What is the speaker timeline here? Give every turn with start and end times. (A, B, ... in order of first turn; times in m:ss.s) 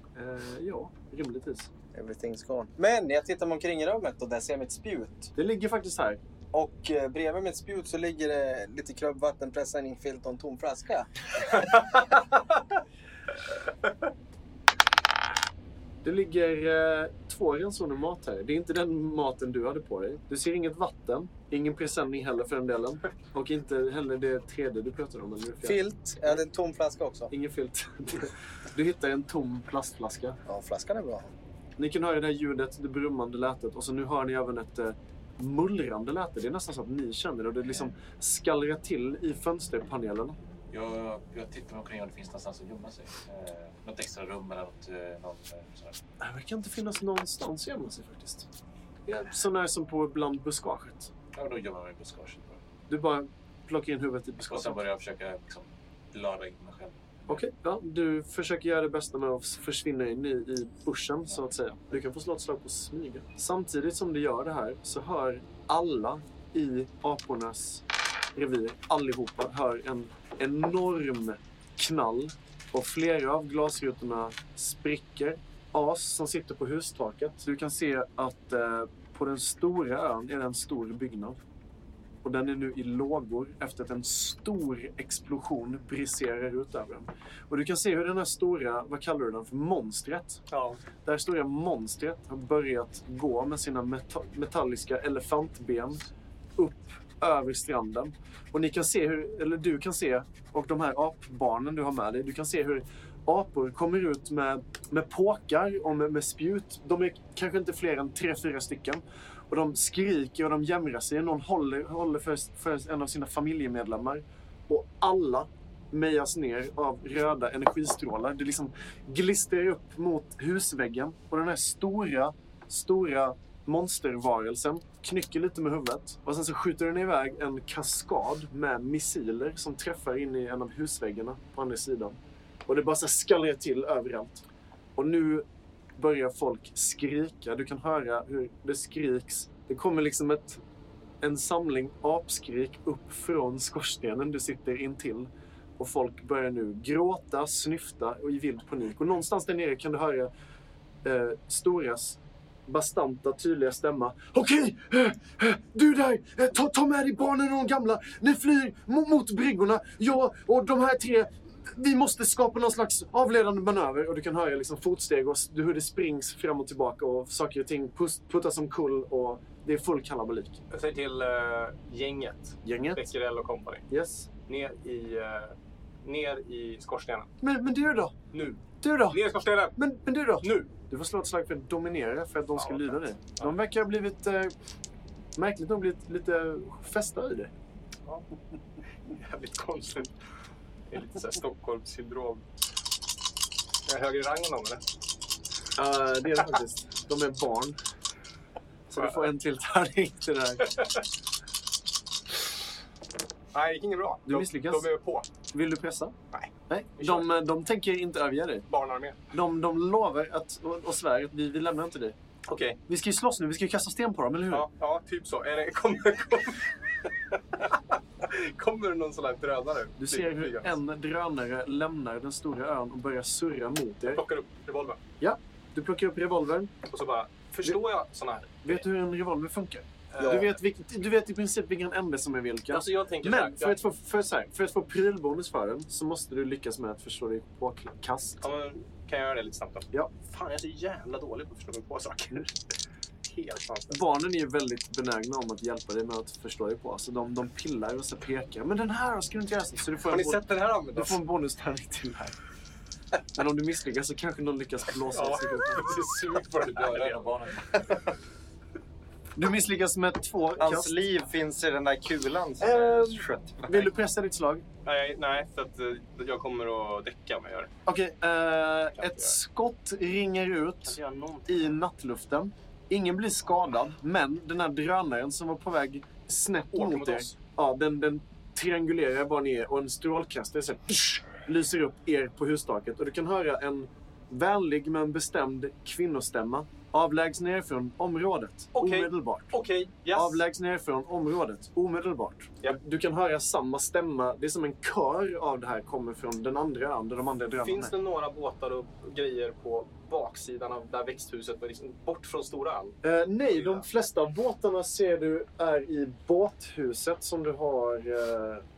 0:00.2-0:01.7 A
0:01.9-0:05.3 B
0:05.4-0:06.2 A
0:06.5-0:11.1 B
0:16.0-0:26.4 A
0:25.6-0:27.3 B
0:27.3-0:30.4 A
0:30.4-0:31.3 B
0:31.8-0:40.4 A
0:40.7-0:46.0 C
0:46.2-0:48.5 A
0:49.1-0:51.1 A
0:51.3-0:52.6 C
0:52.9-0:54.8 A
0:54.4-0:57.4 C
0:57.3-1:07.8 A
1:08.3-1:21.4 A
1:22.2-1:30.4 A
1:30.5-1:30.8 D
1:31.0-1:36.0 A
1:36.6-2:14.4 A
2:15.0-2:15.4 A
2:16.0-2:20.6 A
2:21.2-2:30.3 A
2:31.0-2:50.6 A
2:50.7-2:53.8 D
2:52.6-2:53.0 A
2:53.9-2:54.3 A
2:54.5-2:57.3 D
2:57.4-2:58.2 A
2:58.3-2:59.8 D
2:58.8-2:59.2 A
2:59.7-3:04.5 A
3:00.4-3:00.7 D
3:02.6-3:03.5 D
3:05.4-3:07.5 A
3:09.1-3:10.1 D
3:10.9-3:12.4 D
3:13.9-3:14.8 D
3:15.8-3:17.8 A
3:18.9-3:20.8 A
3:23.5-3:25.3 D
3:24.2-3:24.9 A
3:25.5-3:26.1 A
3:26.3-3:27.3 D
3:26.7-3:28.7 A
3:28.7-3:29.2 D
3:29.3-3:32.2 A
3:32.5-3:32.8 D
3:32.9-3:34.7 A
3:34.5-3:40.7 D
3:40.0-3:44.2 A
3:44.1-3:45.0 D
3:45.2-3:46.7 A
3:46.9-3:48.8 D
3:48.6-3:58.4 A
3:50.1-3:50.5 D
3:50.2-3:50.5 B
3:52.7-3:53.8 D
3:58.4-4:02.6 D
4:03.2-4:04.0 D
4:03.9-4:12.4 A
4:10.1-4:11.2 D
4:13.3-4:16.0 A
4:15.1-4:17.3 D
4:16.7-4:18.0 C
4:19.4-4:21.0 A
4:20.6-4:23.8 E
4:22.6-4:24.6 A
4:24.8-4:27.7 D
4:27.8-4:49.5 A
4:29.0-4:29.3 D
4:30.9-4:31.6 D
4:36.7-4:37.3 D
4:48.7-4:50.4 D
4:50.1-4:57.9 A
4:57.6-5:03.0 D
5:03.0-5:08.6 A
5:03.5-5:03.8 D